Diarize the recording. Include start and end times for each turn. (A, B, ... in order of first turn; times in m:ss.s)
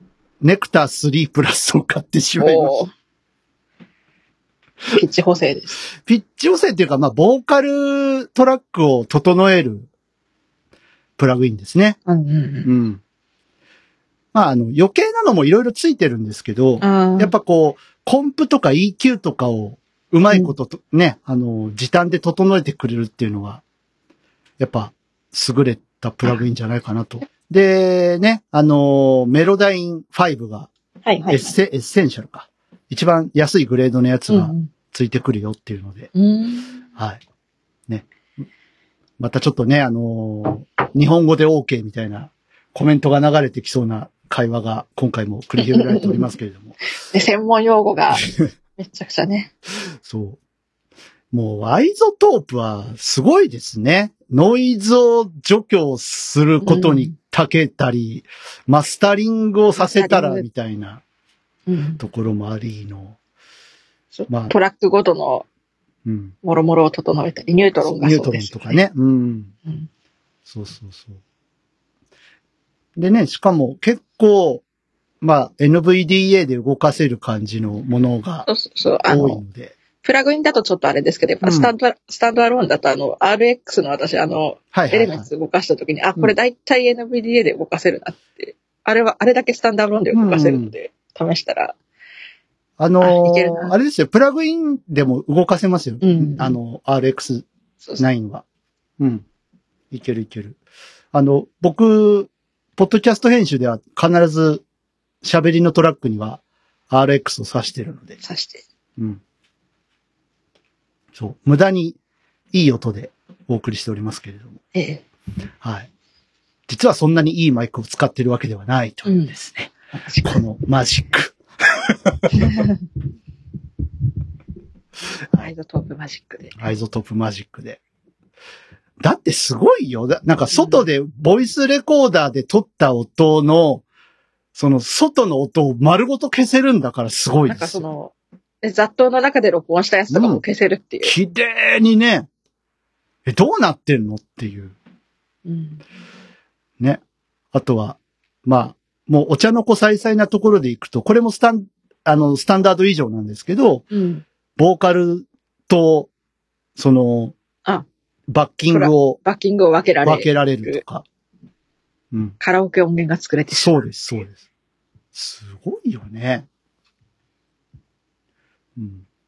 0:00.4-0:02.8 A
0:02.4-0:02.9 B
0:04.9-0:05.8 B
0:06.0-0:09.9 A
0:11.2-0:12.0 A
0:12.1-0:12.7 B
0:12.6-0:13.0 A
0:14.3-0:23.6 A
0:16.8-0:17.3 B
0:24.6-0:30.7 A
0:31.1-0:31.5 B
0:31.3-0:36.1 A
0:34.3-0:34.7 B
0:36.1-0:36.8 B
0:39.2-0:46.8 A
0:45.6-0:46.3 B
0:47.1-0:49.5 B
0:50.0-0:50.4 A
0:51.3-1:01.0 A
0:56.6-0:57.1 B
0:59.8-1:00.4 B
1:01.7-1:02.0 B
1:02.0-1:03.2 A
1:04.1-1:05.4 B
1:04.3-1:04.5 A
1:06.0-1:06.4 A
1:06.4-1:08.8 B
1:07.9-1:09.5 A
1:10.5-1:11.2 A
1:13.0-1:14.6 A
1:15.2-1:18.5 A
1:18.4-1:19.4 B
1:19.1-1:19.7 A
1:20.0-1:31.8 B
1:21.4-1:21.7 A
1:24.7-1:25.3 A
1:30.1-1:30.7 A
1:32.8-1:37.4 A
1:33.0-1:33.8 B
1:36.0-1:36.6 B
1:38.0-1:38.4 A
1:39.0-1:39.2 A
1:39.9-1:40.6 A
1:41.1-1:44.6 A
1:45.2-1:48.2 A
1:48.2-1:48.6 B
1:51.1-1:52.0 A
1:52.5-1:54.6 A
1:54.8-1:55.0 B
1:55.6-1:55.9 A
1:56.7-1:59.7 A
1:59.1-1:59.3 B
2:00.0-2:00.4 B
2:00.2-2:02.6 A
2:02.4-2:02.8 B
2:05.4-2:06.6 B
2:06.6-2:07.8 A
2:09.0-2:13.8 A
2:10.5-2:10.8 B
2:14.6-2:17.8 A
2:17.5-2:21.1 B
2:20.1-2:20.4 A
2:21.0-2:22.3 A
2:23.2-2:24.8 A
2:25.4-2:25.8 B
2:27.5-2:33.9 A
2:33.9-2:34.2 B
2:34.6-2:36.1 A
2:36.8-2:37.4 A
2:38.3-2:39.2 A
2:38.7-2:40.8 B
2:40.0-2:41.0 A
2:42.4-2:43.9 B
2:43.5-2:44.4 A
2:45.1-2:46.4 A
2:48.8-2:49.0 A